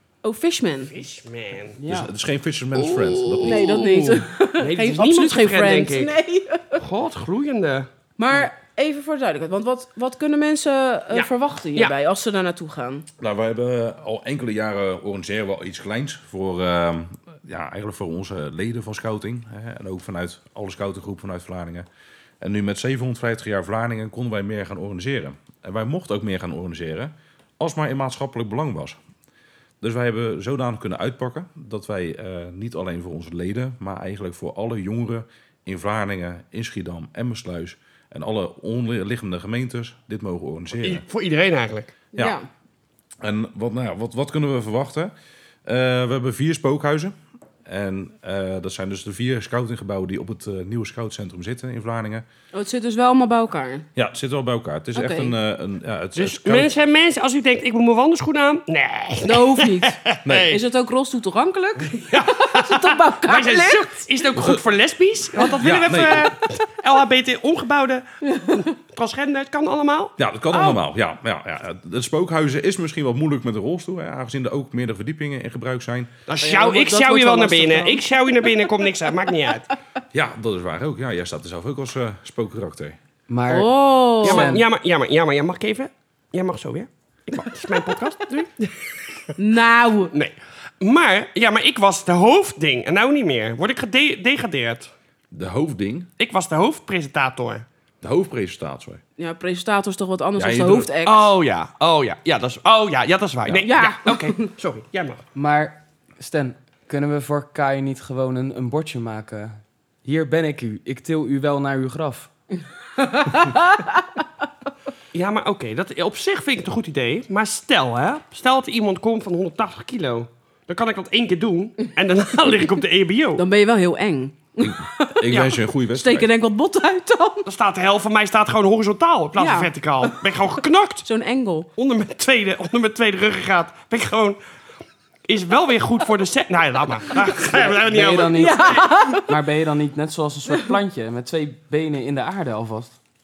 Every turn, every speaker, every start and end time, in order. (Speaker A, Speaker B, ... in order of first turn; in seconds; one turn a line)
Speaker A: 0.2-0.9
Speaker B: 0.8-1.8
Speaker C: 1.8-2.1
Speaker D: 1.9-3.6
Speaker B: 2.7-6.1
Speaker A: 3.4-6.8
Speaker B: 6.8-7.9
Speaker A: 8.2-13.1
Speaker B: 11.1-11.9
Speaker D: 13.2-21.9
Speaker D: 22.4-29.0
Speaker D: 29.8-41.0
Speaker B: 40.8-41.9
Speaker A: 42.1-42.5
Speaker D: 43.2-45.1
Speaker D: 45.6-52.2
Speaker A: 52.5-53.9
Speaker D: 54.0-56.7
Speaker A: 54.9-55.3
Speaker B: 56.1-60.6
Speaker A: 59.2-64.0
Speaker D: 60.2-60.5
Speaker B: 61.8-70.1
Speaker D: 64.3-64.6
Speaker D: 65.6-66.3
Speaker A: 68.3-68.6
Speaker D: 70.2-76.1
Speaker A: 70.5-70.8
Speaker B: 76.3-79.7
Speaker A: 76.4-78.7
Speaker D: 80.1-83.0
Speaker C: 83.3-84.6
Speaker A: 83.5-84.6
Speaker B: 84.2-89.3
Speaker A: 89.4-90.1
Speaker B: 90.1-94.9
Speaker D: 95.3-96.1
Speaker B: 96.2-97.7
Speaker D: 98.0-99.0
Speaker A: 99.2-101.3
Speaker D: 100.4-100.9
Speaker B: 101.0-105.2
Speaker A: 103.6-104.5
Speaker C: 105.3-112.3
Speaker A: 113.0-114.0
Speaker B: 115.1-123.4
Speaker A: 123.3-127.5
Speaker D: 124.6-126.3
Speaker B: 125.3-125.6
Speaker B: 127.5-131.0
Speaker A: 129.4-130.2
Speaker A: 131.0-131.7
Speaker B: 131.8-134.4
Speaker B: 135.3-138.8
Speaker C: 137.4-143.0
Speaker A: 138.3-139.3